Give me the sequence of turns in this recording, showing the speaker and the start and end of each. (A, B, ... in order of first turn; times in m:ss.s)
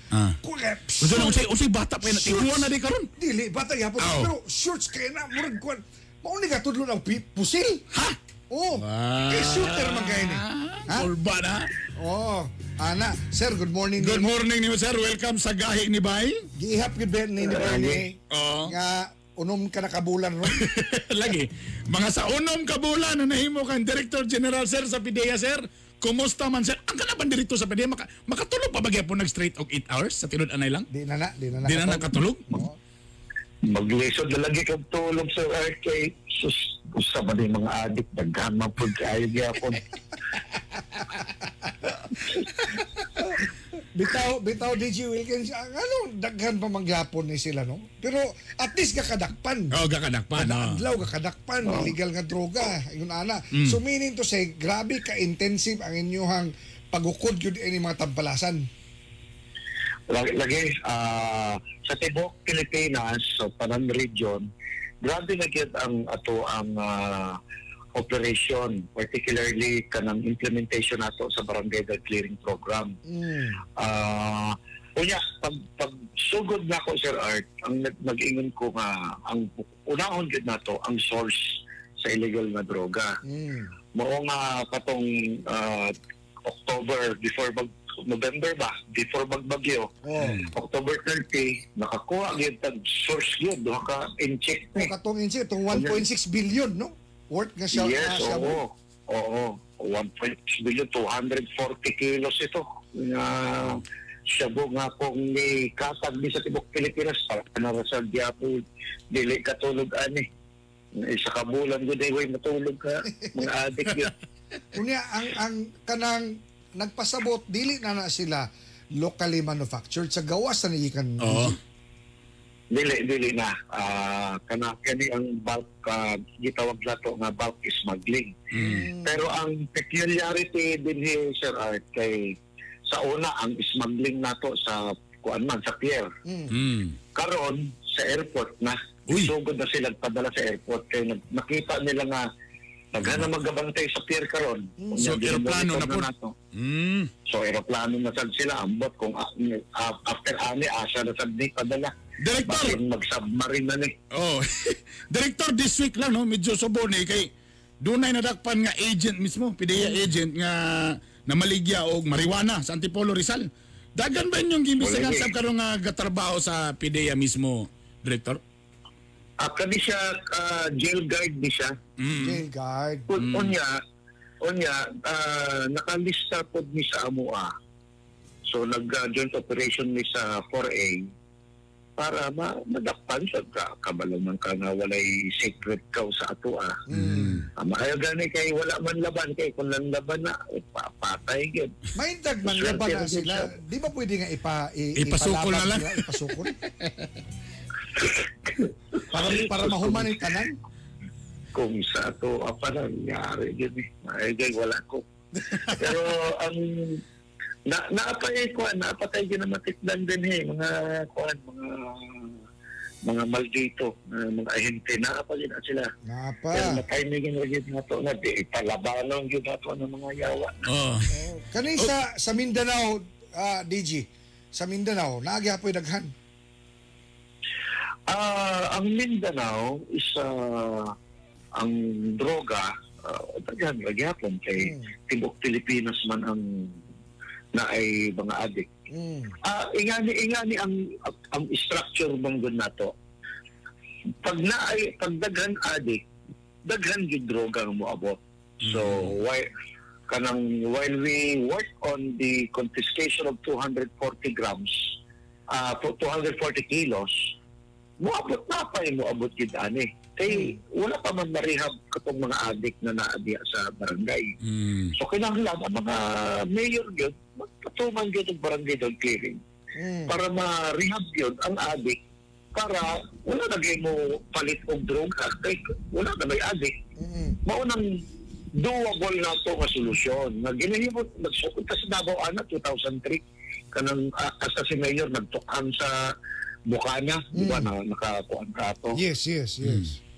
0:00.4-0:01.4 A
0:01.0-0:03.1 B
0:02.0-0:07.8 A
0:04.0-0:04.3 B
0:08.5-0:11.1 A
0:08.8-0:11.7 B
0:12.0-0:14.3 A
0:14.0-0:16.4 B
0:16.6-0:20.7 A
0:17.4-0:18.1 C
0:18.3-0:18.7 B
0:20.5-0:30.9 B
0:30.9-0:32.8 A
0:31.6-0:32.4 B
0:33.7-0:39.8 C
0:43.9-0:49.7 A
0:49.7-0:50.8 B
0:50.4-0:58.7 A
0:51.7-0:51.9 C
0:53.5-0:53.8 B
1:00.1-1:04.5 C
1:05.0-1:07.4 C
1:07.9-1:12.9 C
1:13.1-1:13.6 A
1:13.8-1:23.1 C
1:23.2-1:23.7 A
1:23.9-1:25.9 C
1:26.4-1:29.9 C
1:30.0-1:30.4 A
1:30.2-1:30.5 B
1:30.6-1:34.9 C
1:34.7-1:38.6 A
1:35.7-1:36.0 C
1:37.7-1:48.6 C
1:49.1-1:50.3 C
1:50.9-1:54.1 C
1:54.7-2:01.6 A
2:01.2-2:01.6 B
2:02.7-2:08.4 C
2:08.5-2:08.9 B
2:08.6-2:09.2 A
2:09.0-2:12.3 C
2:12.9-2:16.1 C
2:16.3-2:16.6 A
2:16.5-2:17.0 B
2:17.2-2:22.2 C
2:22.9-2:26.3 C
2:23.0-2:23.3 B
2:25.0-2:27.1 B
2:27.3-2:31.9 C
2:32.2-2:32.8 B
2:32.4-2:33.9 C
2:34.1-2:37.3 B
2:37.8-2:48.4 B
2:44.8-2:45.3 C
2:49.4-2:51.7 C
2:52.0-2:52.4 B
2:52.2-2:53.1 A
2:53.1-2:53.7 C
2:53.2-2:53.6 B
2:54.4-2:57.5 C
2:58.5-3:01.1 C
3:02.0-3:06.8 C
3:06.9-3:07.4 A
3:06.9-3:07.5 B
3:07.6-3:11.7 C
3:12.0-3:16.6 A
3:12.4-3:13.5 C
3:15.0-3:16.1 B
3:16.8-3:17.1 B
3:18.0-3:20.1 C
3:19.1-3:20.6 A
3:21.6-3:25.0 C
3:25.7-3:27.0 C
3:27.7-3:32.3 C
3:33.0-3:35.9 C
3:36.1-3:36.8 A
3:36.5-3:40.6 C
3:40.7-3:41.1 B
3:41.1-3:46.1 A
3:48.1-3:50.9 C
3:51.6-3:56.8 C
3:54.6-3:54.9 A
3:57.5-3:58.7 C
3:58.9-3:59.3 A
3:59.4-4:02.9 C
4:04.2-4:06.0 C
4:06.7-4:09.5 C
4:08.6-4:09.1 B
4:10.1-4:14.8 C
4:15.5-4:17.1 C
4:18.0-4:24.3 C
4:20.3-4:20.6 A
4:24.4-4:24.9 B
4:25.0-4:29.4 C
4:29.8-4:30.1 A
4:30.1-4:32.0 C
4:32.5-4:36.8 C
4:37.0-4:37.4 A
4:37.4-4:38.0 C
4:38.6-4:43.2 C
4:43.7-4:46.0 C
4:46.7-4:49.0 C
4:47.3-4:47.7 A
4:49.0-4:50.0 A